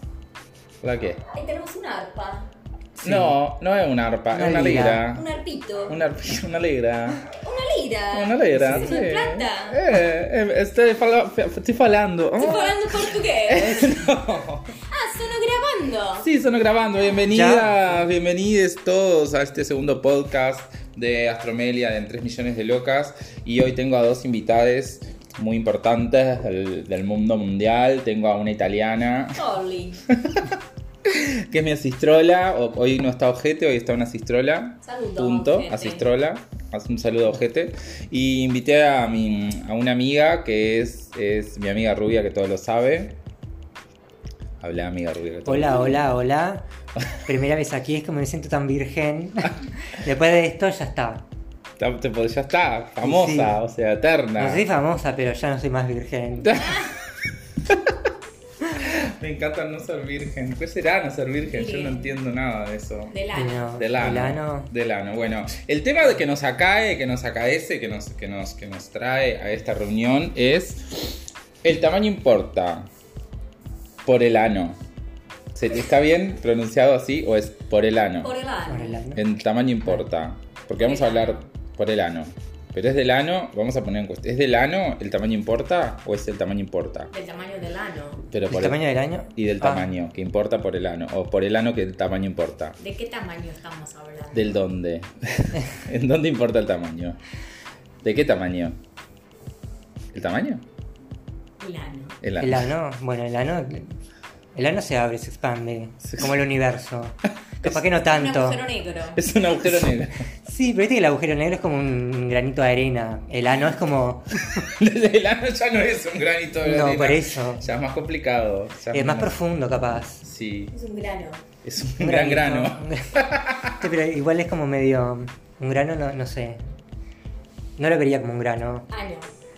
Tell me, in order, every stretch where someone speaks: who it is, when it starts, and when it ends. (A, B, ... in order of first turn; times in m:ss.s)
0:00.8-0:01.2 A
0:01.3-0:02.5 B
0:03.0-0:05.2 A
0:03.0-0:03.4 C
0:04.3-0:05.0 C
0:05.1-0:06.0 B
0:05.9-0:07.2 A
0:07.2-0:09.8 B
0:08.1-0:14.7 A
0:08.5-0:09.1 C
0:12.4-0:14.0 B
0:14.9-0:16.3 B
0:16.2-0:29.4 A
0:17.3-0:18.0 C
0:29.4-0:30.0 B
0:30.1-0:43.2 A
0:34.8-0:36.0 B
0:44.6-0:46.1 A
0:45.4-0:46.7 C
0:47.2-0:51.2 C
0:51.8-0:54.6 A
0:53.0-0:53.6 C
0:54.4-0:56.6 C
0:56.4-0:56.9 A
0:56.6-0:56.9 B
0:57.7-0:57.9 A
0:58.7-1:03.1 A
1:01.4-1:02.2 B
1:03.1-1:03.7 B
1:03.3-1:04.7 C
1:03.8-1:12.9 A
1:14.0-1:14.8 A
1:15.5-1:18.3 A
1:18.2-1:19.0 B
1:18.7-1:19.2 C
1:19.2-1:27.1 A
1:20.8-1:21.4 B
1:27.1-1:28.2 B
1:28.3-1:28.8 A
1:28.5-1:29.9 C
1:29.4-1:32.8 A
1:32.8-1:34.6 B
1:34.3-1:37.2 A
1:38.0-1:38.8 A
1:40.1-1:40.6 A
1:41.6-1:42.2 B
1:42.2-1:42.7 A
1:42.4-1:44.0 C
1:44.5-1:48.7 C
1:46.0-1:46.3 A
1:47.6-1:47.9 A
1:48.0-1:49.2 B
1:49.1-1:50.2 A
1:50.4-1:54.3 C
1:54.6-1:59.4 A
1:56.6-1:57.6 C
1:58.9-2:00.2 C
2:00.2-2:00.7 A
2:00.7-2:01.4 B
2:01.6-2:03.9 A
2:02.0-2:03.2 C
2:03.8-2:06.6 C
2:07.8-2:08.9 C
2:08.9-2:09.3 B